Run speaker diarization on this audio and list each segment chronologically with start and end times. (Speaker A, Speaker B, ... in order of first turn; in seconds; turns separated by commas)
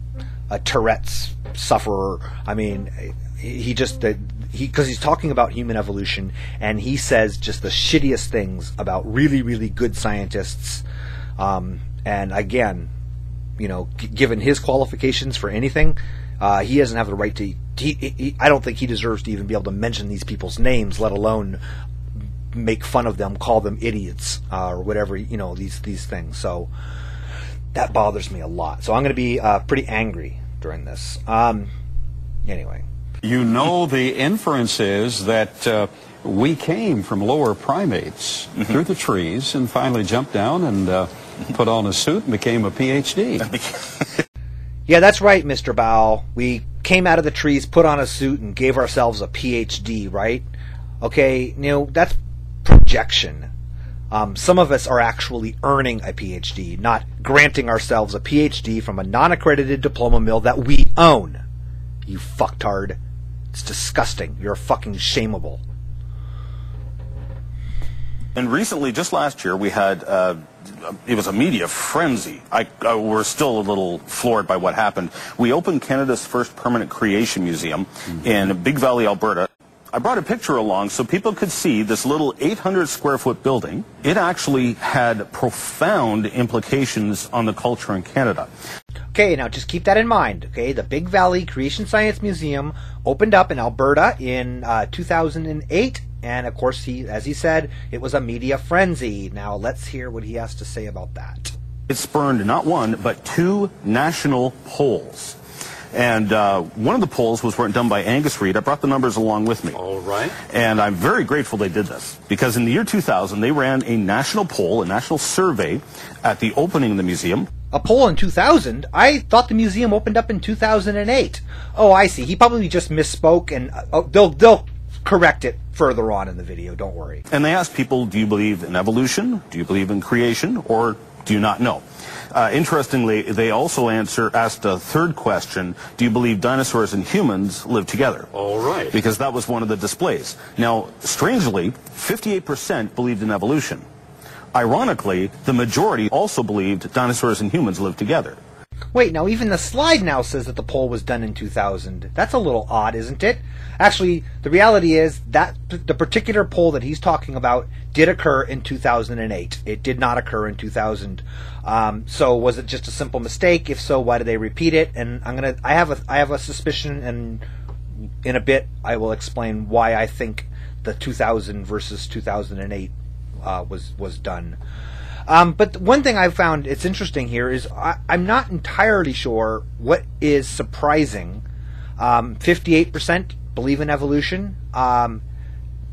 Speaker A: 0.5-10.8, Speaker A: 11.4-12.9, Speaker A: 13.6-21.6, Speaker A: 22.5-26.7, Speaker A: 27.7-31.7, Speaker A: 32.4-32.8, Speaker B: 33.2-43.5, Speaker A: 44.9-50.5, Speaker A: 51.0-53.5, Speaker A: 54.1-61.4, Speaker A: 62.0-63.0, Speaker A: 63.5-65.6, Speaker C: 68.3-88.5, Speaker A: 89.1-101.5, Speaker C: 101.9-105.4, Speaker C: 105.9-109.8, Speaker B: 109.7-110.4, Speaker C: 110.4-117.5, Speaker A: 117.7-127.2, Speaker C: 127.3-138.3, Speaker B: 138.3-138.9, Speaker C: 138.9-143.8, Speaker C: 144.5-148.4, Speaker A: 148.9-167.4, Speaker A: 168.2-172.9, Speaker A: 173.4-174.6, Speaker A: 175.3-181.4, Speaker A: 182.0-185.2